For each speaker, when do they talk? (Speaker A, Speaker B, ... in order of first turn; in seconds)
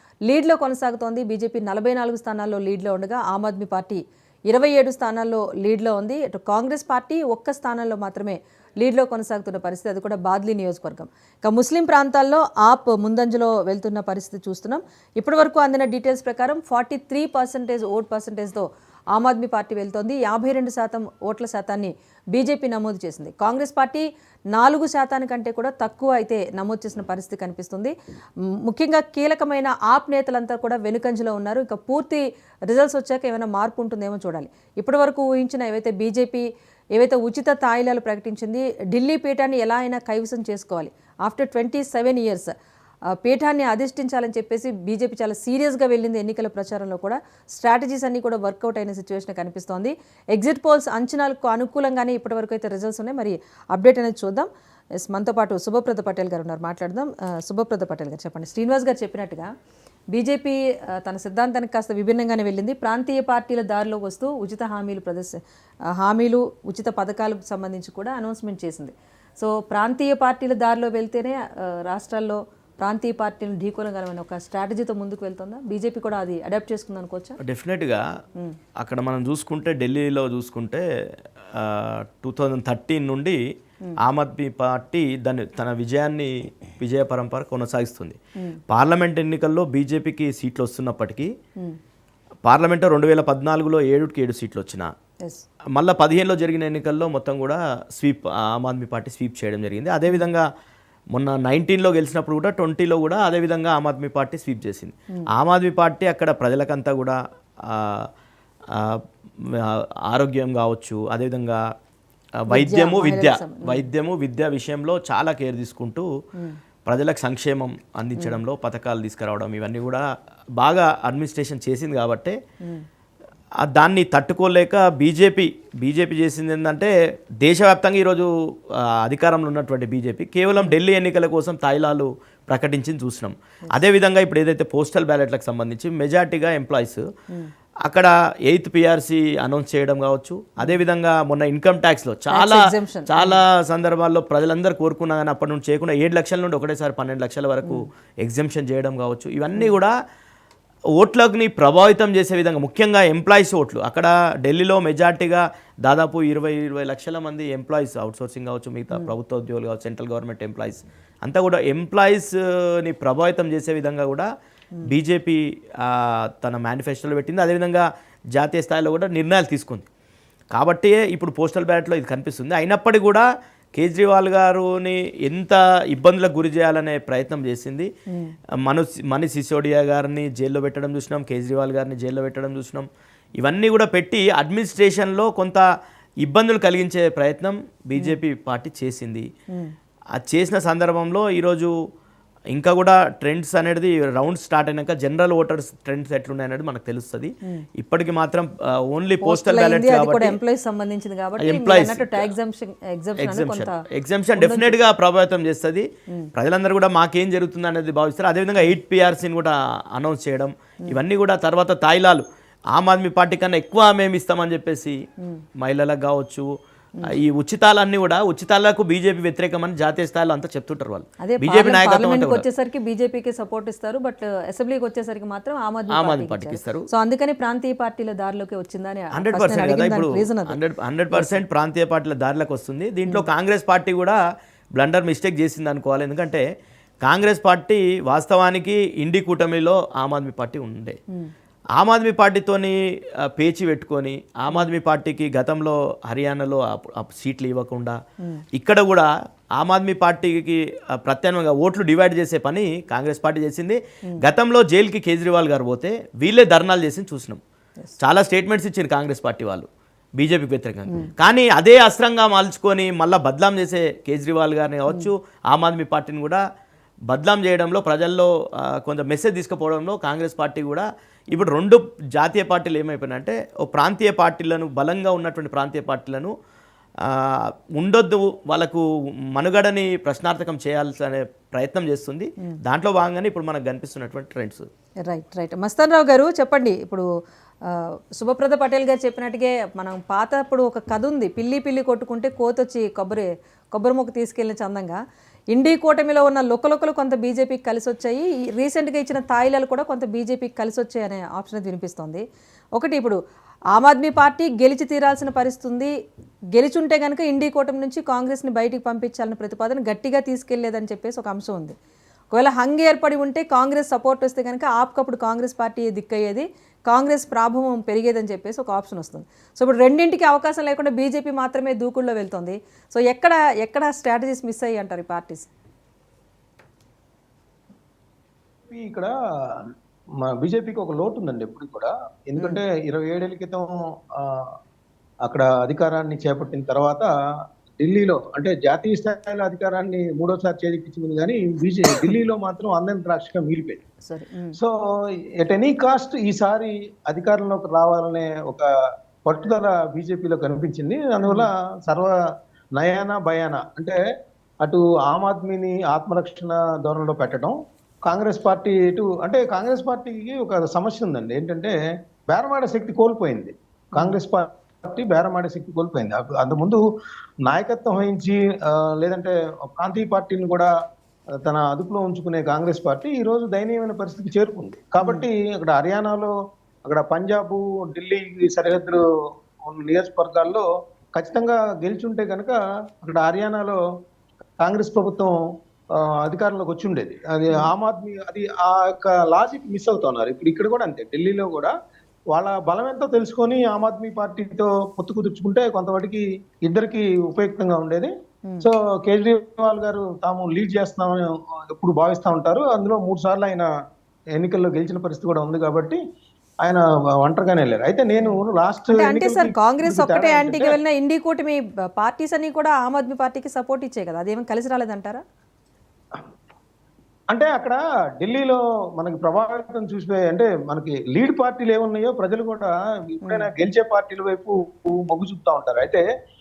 Speaker A: 0.3-27.9, 28.6-42.5, 43.2-54.5, 55.0-59.5, 60.1-65.4, 66.0-77.4, 112.5-113.9, 142.3-143.4, 178.1-178.3, 199.2-203.8, 204.4-204.8, 221.2-230.6, 231.1-231.4, 285.1-287.1, 287.7-295.0, 295.5-302.2, 302.8-303.2, 303.7-305.9, 306.5-311.8, 312.3-325.5, 344.1-344.6, 375.0-375.2, 409.0-415.2
Speaker B: 77.4-78.0, 78.8-80.8, 81.5-83.4, 84.0-88.2, 88.7-91.3, 92.4-94.9, 95.7-100.5, 101.1-108.1, 108.7-111.6, 112.4-116.1, 116.9-120.0, 120.6-122.4, 123.6-128.3, 129.0-137.0, 137.8-149.9, 151.0-164.3, 164.9-169.9, 170.5-177.9, 178.6-182.9, 183.4-185.6, 186.2-189.3, 190.2-191.7, 192.5-200.4, 201.4-202.3, 203.2-215.0, 215.6-216.5, 217.1-222.5, 225.9-226.9, 229.2-234.2, 234.8-236.4, 237.0-241.0, 241.8-242.8, 243.3-248.0, 248.5-257.4, 258.0-266.4, 267.1-276.3, 277.1-284.7
Speaker C: 328.7-329.6, 330.2-334.5, 335.2-337.1, 337.8-343.8, 345.4-348.7, 349.2-352.1, 352.8-354.0, 354.6-361.7, 362.3-366.8, 367.4-370.7, 371.4-376.3, 376.8-379.0, 379.6-383.8, 384.6-385.3, 386.0-391.7, 392.3-403.7, 404.3-406.0, 406.6-410.8, 417.3-426.0